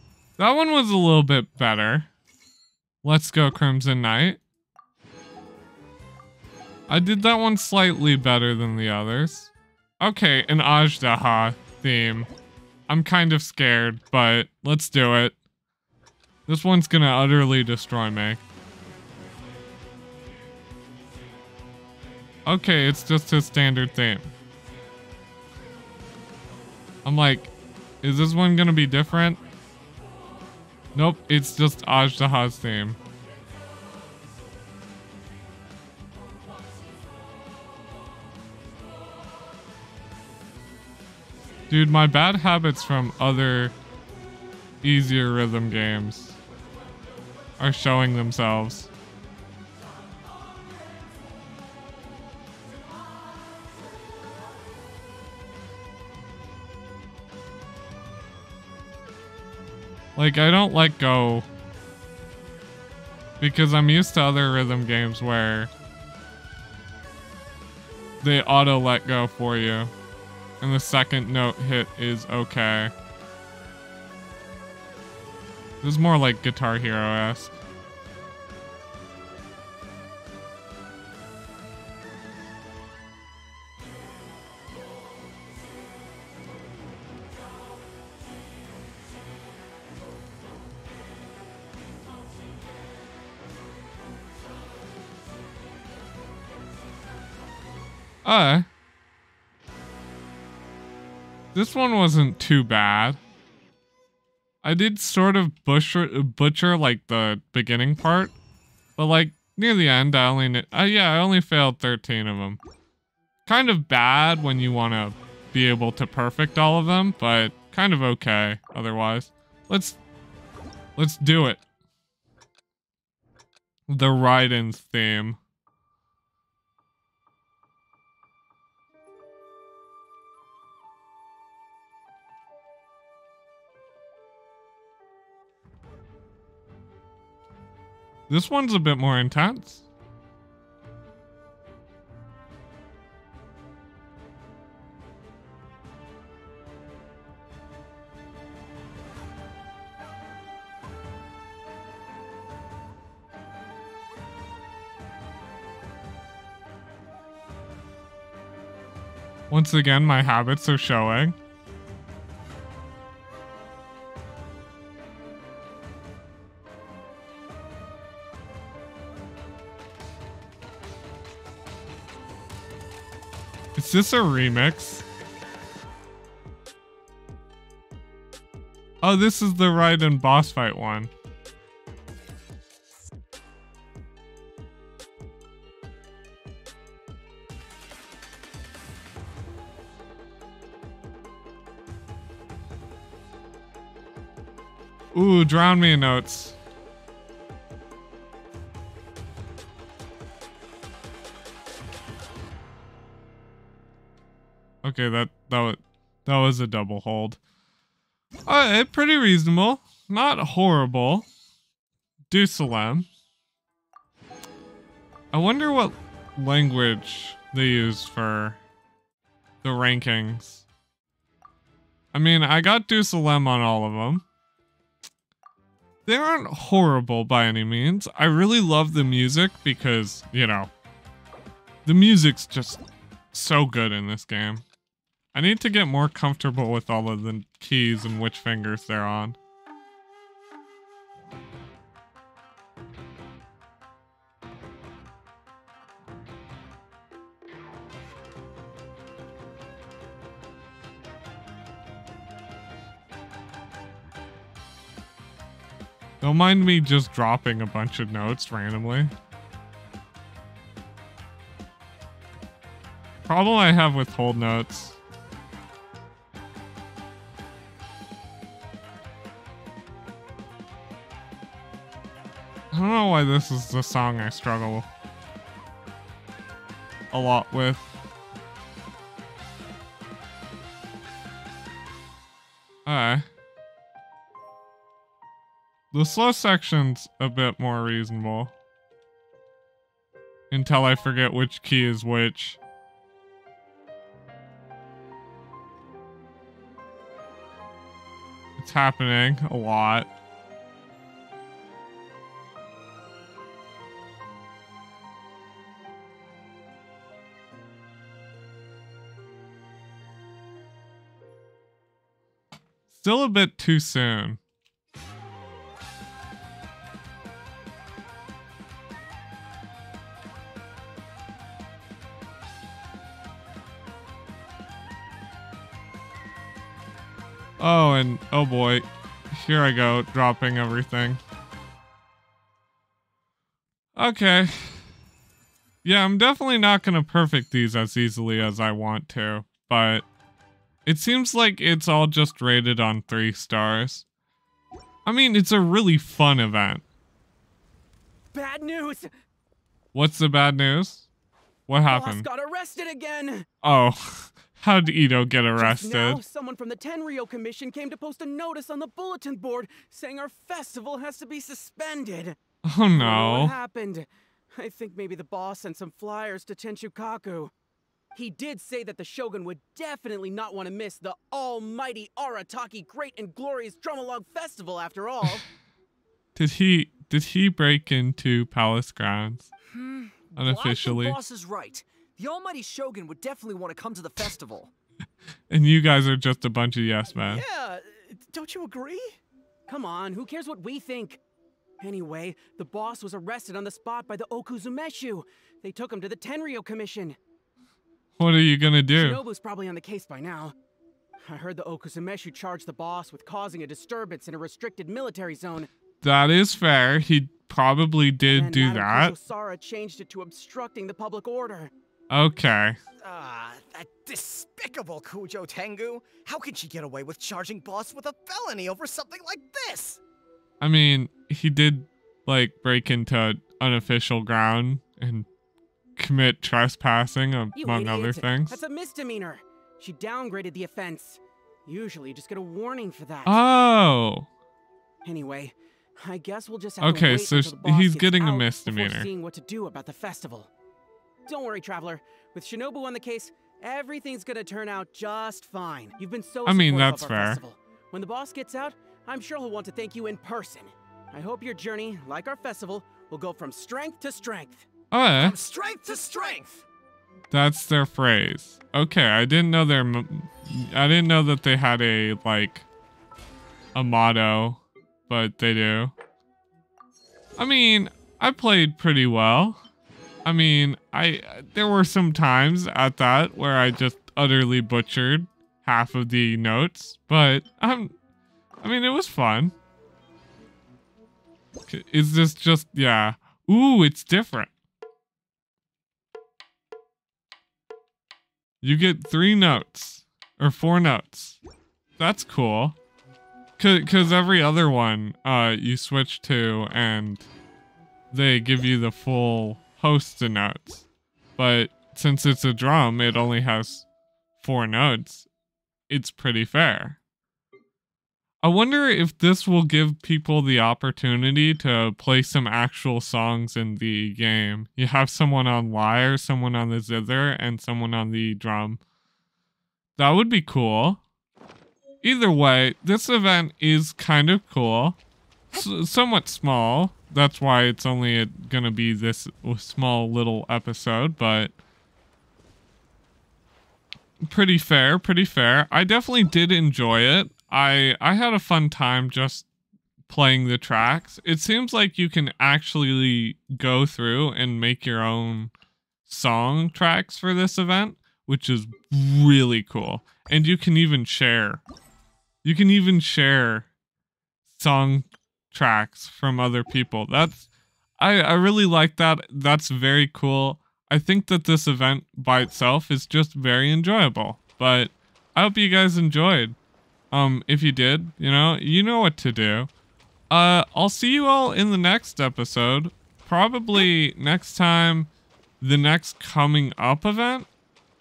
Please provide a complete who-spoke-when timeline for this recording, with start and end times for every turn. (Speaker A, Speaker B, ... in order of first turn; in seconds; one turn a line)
Speaker A: 0.4-2.1
Speaker A: 3.0-4.4
Speaker A: 6.9-12.3
Speaker A: 12.9-15.3
Speaker A: 16.5-18.4
Speaker A: 22.4-24.3
Speaker A: 27.0-27.5
Speaker A: 28.0-29.4
Speaker A: 30.9-33.0
Speaker A: 41.7-43.7
Speaker A: 44.8-46.4
Speaker A: 47.6-48.9
Speaker A: 60.1-61.5
Speaker A: 63.4-65.7
Speaker A: 68.2-69.9
Speaker A: 70.6-72.9
Speaker A: 75.8-77.5
Speaker A: 98.2-98.7
Speaker A: 101.5-103.2
Speaker A: 104.6-108.3
Speaker A: 109.0-112.6
Speaker A: 113.5-120.0
Speaker A: 121.0-121.6
Speaker A: 123.9-125.4
Speaker A: 138.3-139.8
Speaker A: 159.5-161.3
Speaker A: 173.8-175.0
Speaker A: 179.0-181.1
Speaker A: 195.1-196.6
Speaker A: 204.8-207.4
Speaker A: 208.5-211.2
Speaker A: 212.3-213.1
Speaker A: 215.3-218.6
Speaker A: 219.6-220.6
Speaker A: 222.1-224.2
Speaker A: 226.1-230.7
Speaker A: 231.8-232.8
Speaker A: 233.3-234.6
Speaker A: 235.3-239.4
Speaker A: 256.2-259.1
Speaker A: 263.2-265.0
Speaker A: 272.7-274.9
Speaker A: 277.1-277.9
Speaker A: 282.9-283.2
Speaker A: 285.9-288.5
Speaker A: 290.5-292.6
Speaker A: 298.6-300.1
Speaker A: 312.9-314.4
Speaker A: 327.6-331.2
Speaker A: 333.9-334.9
Speaker A: 335.8-340.0
Speaker A: 340.9-344.0
Speaker A: 345.0-346.8
Speaker B: 348.3-349.1
Speaker A: 349.9-351.1
Speaker A: 351.7-352.3
Speaker B: 351.9-353.4
Speaker A: 353.6-356.2
Speaker B: 355.6-362.4
Speaker A: 362.6-363.5
Speaker B: 362.9-367.5
Speaker B: 368.1-375.4
Speaker A: 376.3-379.5
Speaker B: 379.7-380.1
Speaker A: 380.4-381.2
Speaker C: 380.4-384.7
Speaker A: 385.5-387.4
Speaker D: 387.3-389.2
Speaker B: 389.7-391.2
Speaker B: 391.8-397.2
Speaker A: 398.2-399.2
Speaker B: 398.9-400.5
Speaker B: 401.2-405.7
Speaker A: 406.0-409.1
Speaker B: 408.3-411.7
Speaker A: 412.1-412.8
Speaker D: 413.0-420.0
Speaker A: 420.6-425.3
Speaker A: 426.0-428.6
Speaker B: 427.6-433.4
Speaker A: 433.2-434.3
Speaker B: 435.0-440.5
Speaker A: 436.8-439.1
Speaker B: 441.2-454.7
Speaker A: 446.4-447.4
Speaker A: 454.9-455.4
Speaker D: 455.2-456.6
Speaker B: 455.9-456.4
Speaker A: 457.3-462.6
Speaker A: 463.7-465.9
Speaker A: 467.4-469.6
Speaker A: 470.2-477.9
Speaker A: 478.6-479.5
Speaker A: 481.7-484.5
Speaker A: 488.6-491.4
Speaker A: 492.0-492.8
Speaker A: 493.6-497.3
Speaker A: 498.1-500.8
Speaker A: 501.4-503.8
Speaker A: 504.4-505.3
Speaker A: 505.9-507.0
Speaker A: 508.4-518.8
Speaker A: 520.0-521.0
Speaker A: 522.0-525.0
Speaker A: 525.5-531.5
Speaker A: 534.2-539.5
Speaker A: 540.1-545.5
Speaker A: 546.1-551.6
Speaker A: 552.4-553.7
Speaker A: 554.5-557.5
Speaker A: 558.0-566.5
Speaker A: 567.1-569.7
Speaker A: 570.3-575.1
Speaker A: 575.6-577.5